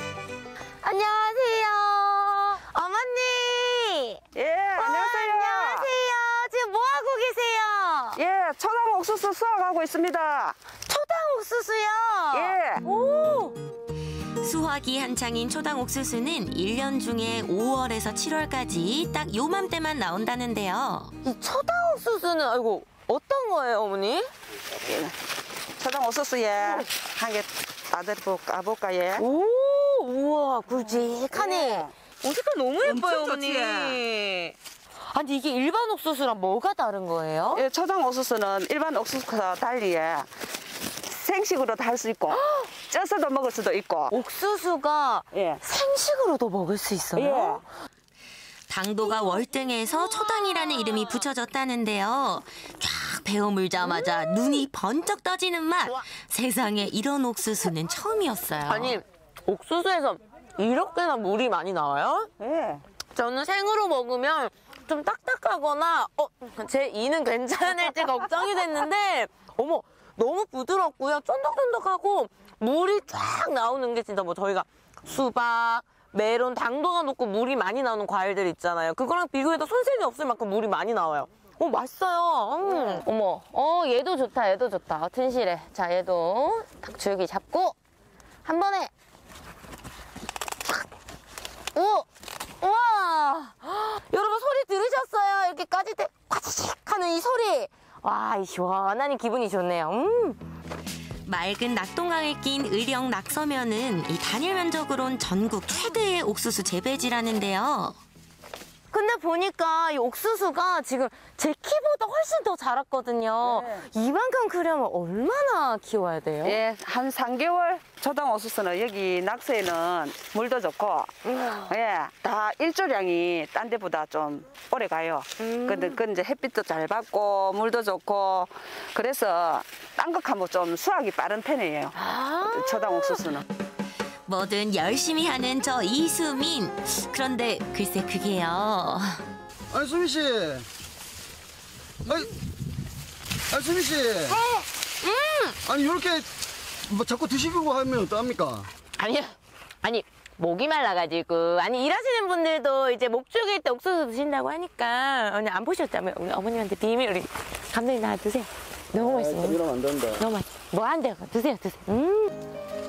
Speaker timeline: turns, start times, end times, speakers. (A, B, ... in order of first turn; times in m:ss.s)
0:00.8-0:04.2 A
0:04.3-0:05.9 B
0:04.8-0:08.2 A
0:08.2-0:10.6 B
0:10.9-0:13.6 A
0:12.3-0:12.8 B
0:14.4-0:21.1 C
0:21.2-0:24.3 A
0:24.8-0:25.2 B
0:25.8-0:29.3 B
0:29.2-0:34.6 A
0:31.3-0:31.9 B
0:32.8-0:34.0 B
0:35.1-0:37.6 A
0:37.5-0:40.3 B
0:41.0-0:44.1 B
0:42.3-0:42.7 A
0:44.1-0:47.6 A
0:45.3-0:45.6 B
0:47.2-0:47.6 B
0:48.7-0:59.0 C
0:58.7-1:02.3 A
1:02.4-1:02.8 B
1:03.2-1:27.8 A
1:22.6-1:23.0 B
1:28.4-1:28.9 A
1:31.7-1:32.1 A
1:32.6-1:40.4 A
1:41.2-1:48.0 C
1:48.9-1:56.6 A
1:53.4-1:53.8 B
1:56.4-2:01.1 B
2:01.2-2:01.7 A
2:01.7-2:12.0 B
2:05.4-2:06.0 A
2:12.0-2:13.3 A
2:12.5-2:13.4 B
2:14.3-2:19.2 C
2:19.7-2:20.7 D
2:22.0-2:22.3 D
2:23.5-2:24.4 D
2:24.3-2:25.6 A
2:25.7-2:26.3 D
2:26.8-2:28.7 D
2:29.0-2:39.6 A
2:39.0-2:40.2 D
2:40.2-2:42.3 A